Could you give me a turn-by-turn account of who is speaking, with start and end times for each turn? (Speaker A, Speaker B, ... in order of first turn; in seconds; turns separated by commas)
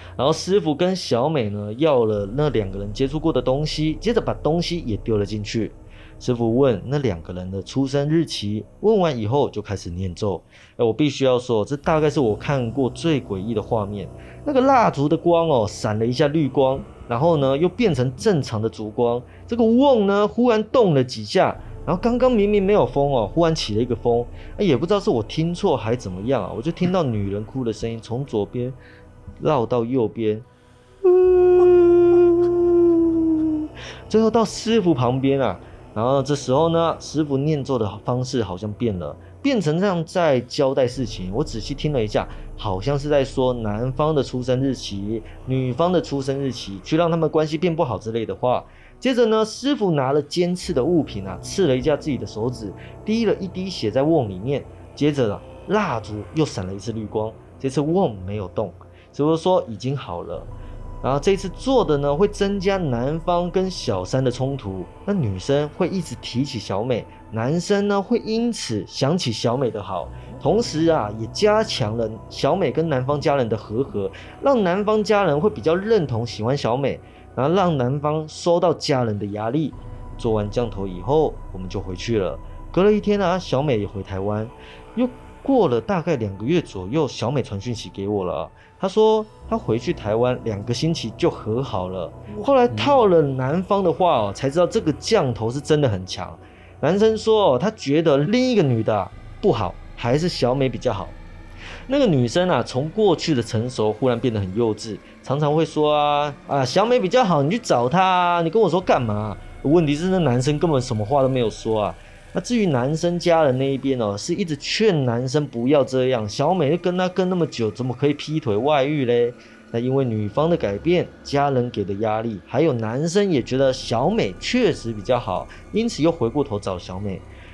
Speaker A: 0.2-28.8, Speaker A: 29.4-30.5, Speaker A: 31.0-60.5, Speaker A: 61.0-101.2, Speaker A: 101.9-127.3